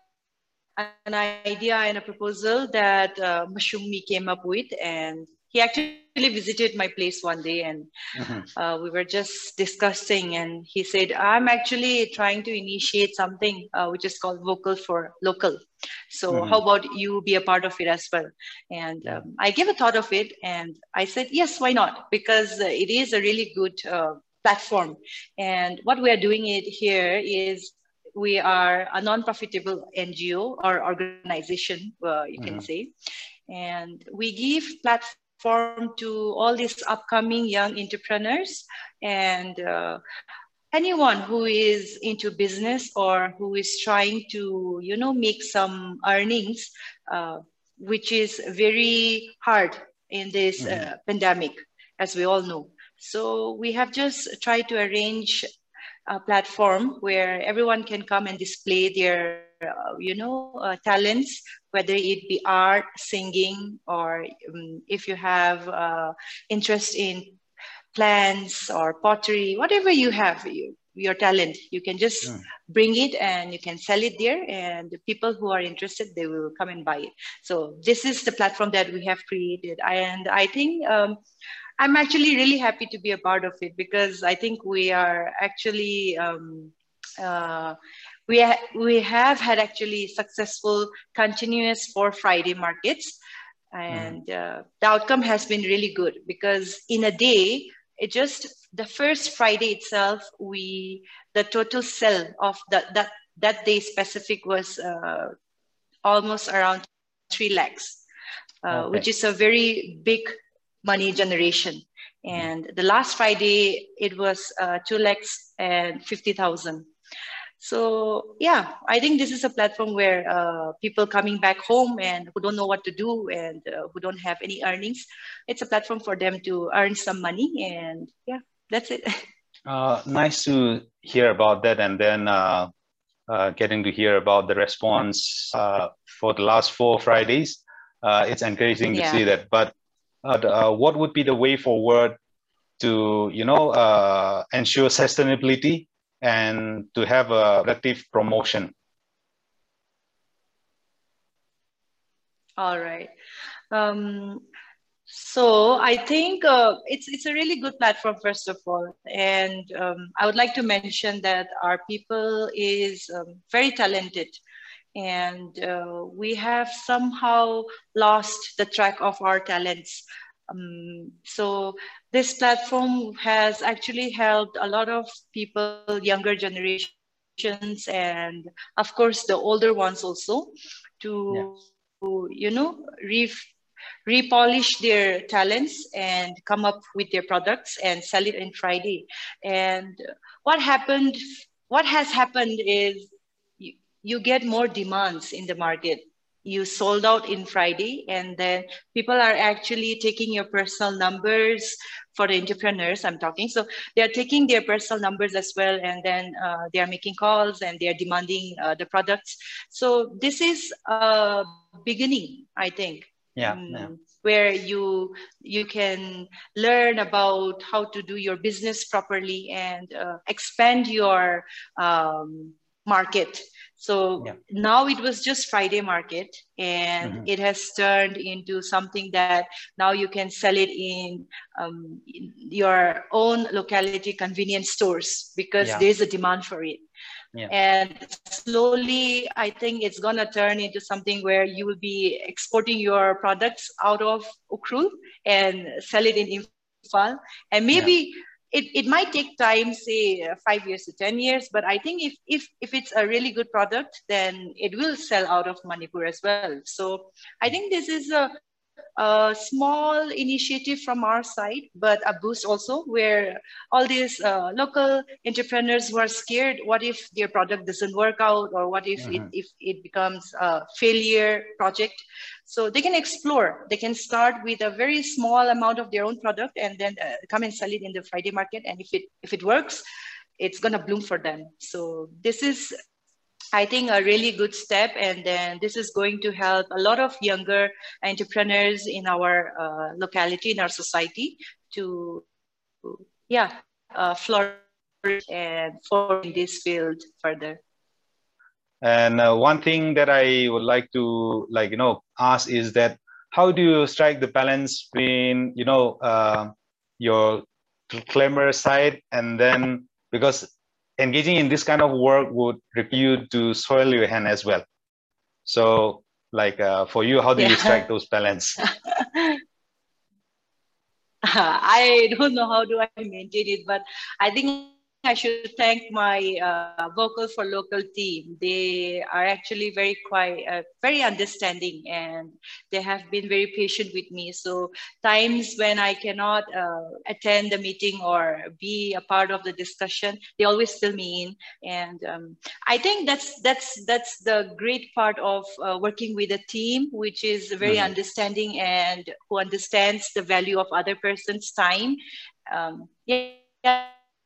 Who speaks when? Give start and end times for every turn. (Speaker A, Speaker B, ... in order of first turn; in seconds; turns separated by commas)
Speaker A: 0.8-7.9, Speaker A: 8.4-15.6, Speaker A: 16.1-32.9, Speaker B: 16.3-16.6, Speaker A: 33.5-40.0, Speaker A: 40.7-55.5, Speaker A: 56.1-67.4, Speaker A: 67.9-81.2, Speaker A: 81.8-93.2, Speaker A: 93.7-105.3, Speaker A: 106.0-108.0, Speaker A: 108.6-110.3, Speaker B: 108.7-109.0, Speaker A: 110.8-116.9, Speaker A: 117.6-129.2, Speaker B: 129.7-132.7, Speaker B: 133.3-139.7, Speaker A: 138.9-139.2, Speaker B: 140.2-142.2, Speaker B: 142.8-148.7, Speaker A: 152.6-153.1, Speaker A: 153.7-154.4, Speaker A: 155.1-164.4, Speaker A: 164.9-183.5, Speaker A: 184.1-236.8, Speaker B: 213.3-213.9, Speaker A: 237.5-258.3, Speaker A: 259.0-279.8, Speaker A: 280.4-282.7, Speaker A: 283.5-292.3, Speaker A: 292.8-297.6, Speaker B: 298.8-314.6, Speaker B: 315.4-318.6, Speaker A: 317.4-317.8, Speaker A: 318.6-319.4, Speaker A: 321.2-352.0, Speaker B: 347.6-347.9, Speaker A: 352.5-353.9